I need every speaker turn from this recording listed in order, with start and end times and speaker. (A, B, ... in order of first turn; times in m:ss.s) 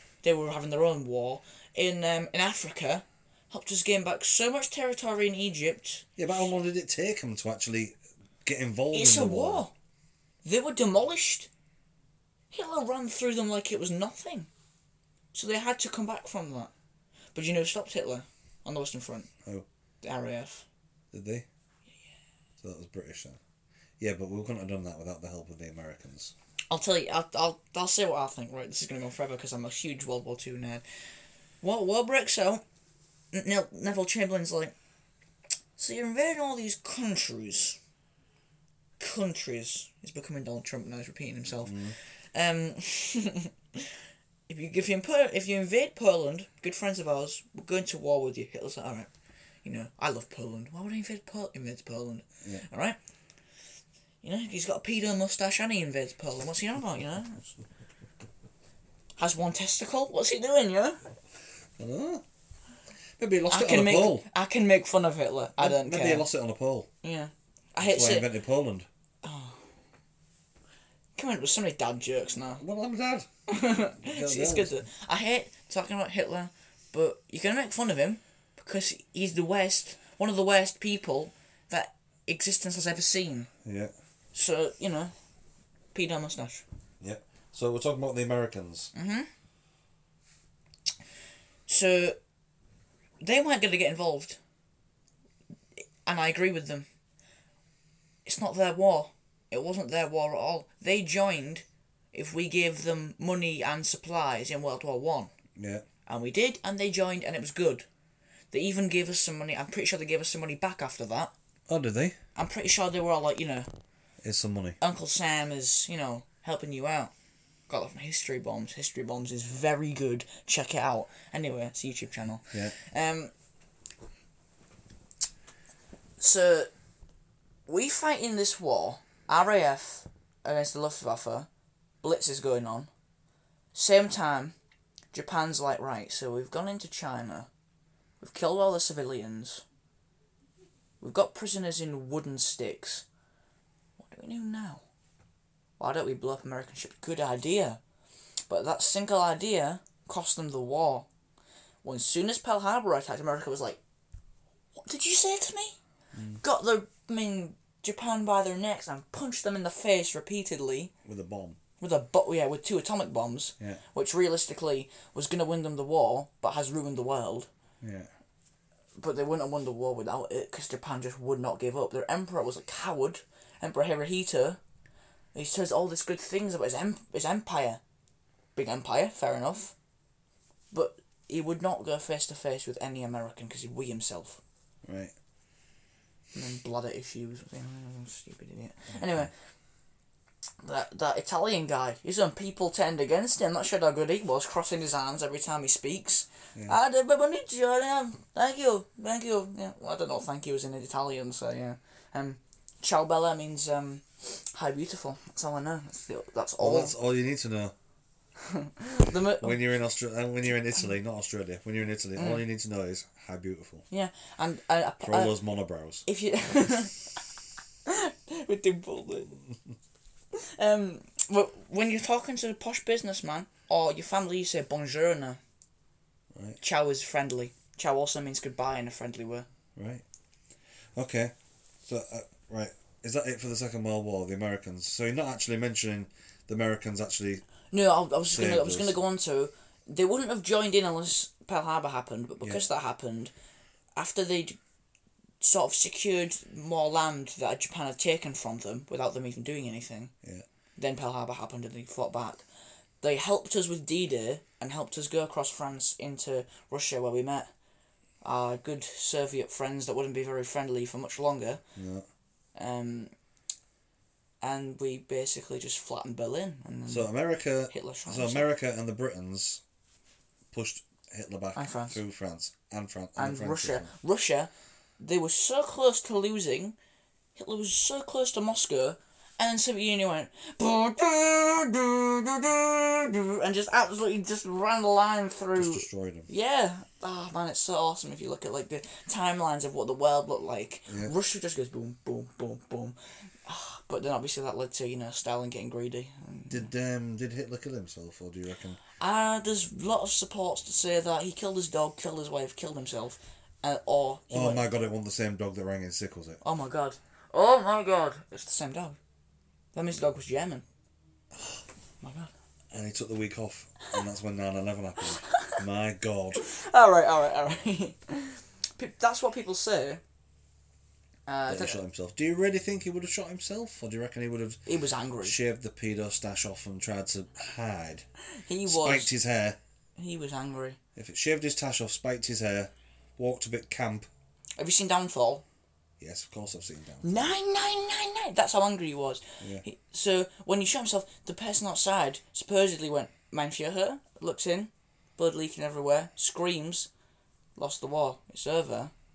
0:00.2-0:06.1 A
0:06.2-0:09.7 B
0:08.9-0:09.7 A
0:10.4-0:11.5 A
0:12.5-0:14.5 A
0:15.3-0:16.7 A
0:17.3-0:19.3 A
0:20.0-0:20.6 A
0:21.1-0:21.4 B
0:22.6-0:23.4 B
0:24.0-0:26.3 B
0:26.7-0:30.8 A
0:31.6-0:32.6 A
0:33.3-0:34.7 A
0:35.8-0:37.8 A
0:39.0-0:43.9 A
0:41.6-0:42.0 B
0:44.5-0:49.1 A
0:49.6-0:53.0 A
0:54.2-0:57.4 A
0:59.2-1:01.0 A
1:01.8-1:02.2 B
1:03.2-1:04.2 B
1:03.5-1:06.3 A
1:05.6-1:06.9 B
1:07.0-1:08.3 A
1:07.8-1:08.9 B
1:09.2-1:09.6 A
1:11.2-1:12.6 A
1:12.6-1:13.3 B
1:13.5-1:23.5 A
1:14.0-1:14.7 B
1:23.6-1:23.9 B
1:24.3-1:25.1 A
1:25.9-1:26.6 A
1:27.0-1:28.9 B
1:28.9-1:29.3 A
1:31.7-1:32.2 A
1:33.2-1:34.4 A
1:36.0-1:36.8 A
1:38.2-1:45.3 A
1:45.6-1:45.8 B
1:46.0-1:47.8 A
1:48.5-1:51.3 A
1:51.7-1:52.2 B
1:52.4-1:53.7 A
1:54.2-1:54.8 B
1:54.8-1:57.1 A
1:57.7-2:03.3 A
2:06.2-2:06.7 A
2:07.7-2:11.5 A
2:12.0-2:12.9 A
2:13.7-2:14.5 A
2:15.1-2:17.5 A
2:18.2-2:19.6 A
2:21.0-2:23.0 A
2:24.0-2:24.8 A
2:25.8-2:27.8 A
2:28.5-2:31.1 A
2:31.8-2:33.8 A
2:34.7-2:35.8 A
2:36.1-2:36.4 B
2:36.4-2:40.9 A
2:41.0-2:41.6 B
2:41.8-2:47.5 A
2:47.8-2:48.1 B
2:49.0-2:54.6 A
2:55.3-2:57.8 A
2:58.6-2:59.7 A
3:00.7-3:04.4 A
3:04.8-3:05.1 B
3:06.3-3:09.3 A
3:08.9-3:09.2 B
3:10.6-3:26.9 A
3:26.6-3:27.7 B
3:28.4-3:29.6 A
3:29.1-3:33.8 B
3:32.2-3:32.4 A
3:33.9-3:35.4 A
3:35.0-3:36.0 B
3:36.0-3:37.0 A
3:37.8-3:39.4 A
3:40.3-3:45.4 A
3:46.3-3:46.6 B
3:46.6-3:49.5 A
3:49.8-3:50.0 B
3:50.9-3:57.4 B
3:57.7-4:03.3 A
3:58.2-3:59.0 B
4:04.0-4:04.6 A
4:05.4-4:10.1 A
4:10.8-4:12.4 A
4:13.0-4:17.5 A
4:18.2-4:21.6 A
4:21.8-4:22.0 B
4:22.5-4:23.1 A
4:24.4-4:27.1 A
4:26.9-4:29.6 B
4:27.7-4:28.5 A
4:30.5-4:33.9 B
4:31.5-4:32.0 A
4:33.2-4:36.7 A
4:37.4-4:56.7 A
4:45.5-4:46.3 B
4:50.9-4:51.1 B
4:56.5-4:58.8 B
4:59.0-5:04.7 A
5:04.3-5:06.4 B
5:06.4-5:09.0 A
5:09.7-5:10.6 A
5:11.3-5:11.6 B
5:12.0-5:12.3 A
5:12.7-5:16.4 B
5:15.3-5:15.6 A
5:16.3-5:20.0 A
5:21.3-5:21.8 A
5:21.5-5:24.6 B
5:24.6-5:25.4 A
5:25.2-5:28.0 B
5:28.4-5:29.1 A
5:28.6-5:29.6 B
5:30.0-5:30.8 A
5:30.9-5:34.1 B
5:34.6-5:35.4 A
5:36.0-5:37.3 B
5:37.0-5:46.9 A
5:47.6-5:48.9 A